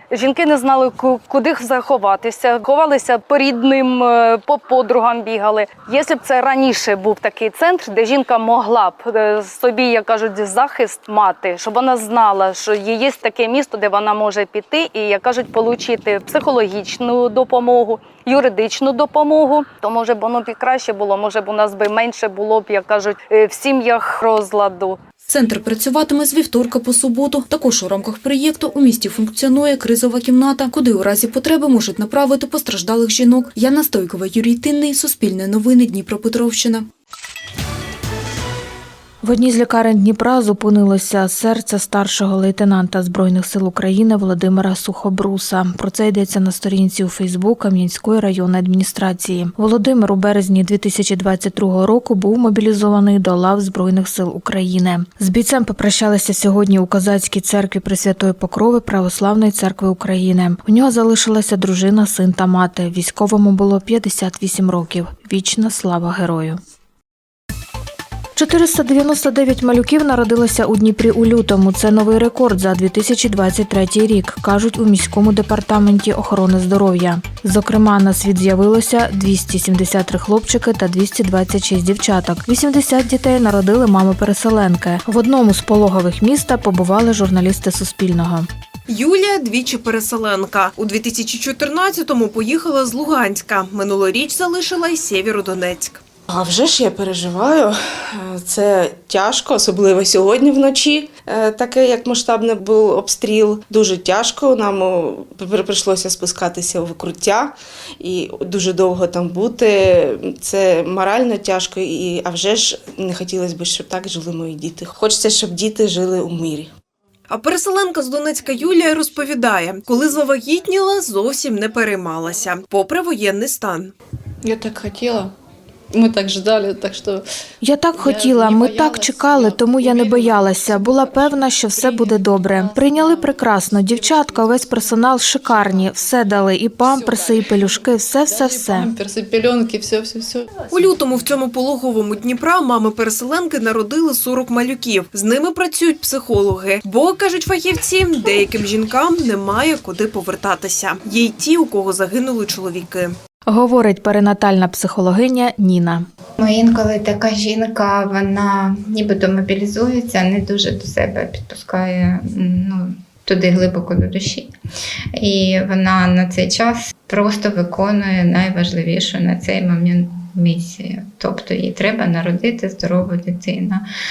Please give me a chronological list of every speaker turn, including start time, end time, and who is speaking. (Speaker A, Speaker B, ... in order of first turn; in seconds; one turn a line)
Speaker A: 0.1-25.0
Speaker B: 25.3-36.9
Speaker C: 39.2-66.6
Speaker C: 68.3-88.5
Speaker D: 88.9-96.0
Speaker E: 96.3-116.7
Speaker D: 117.3-123.9
Speaker F: 124.4-125.3
Speaker F: 125.9-127.2
Speaker C: 127.6-138.9
Speaker F: 128.0-133.3
Speaker F: 133.9-134.7
Speaker F: 136.9-137.4
Speaker F: 138.3-140.8
Speaker D: 140.7-153.1
Speaker C: 153.5-156.1
Speaker G: 156.4-164.5
Speaker G: 165.2-173.8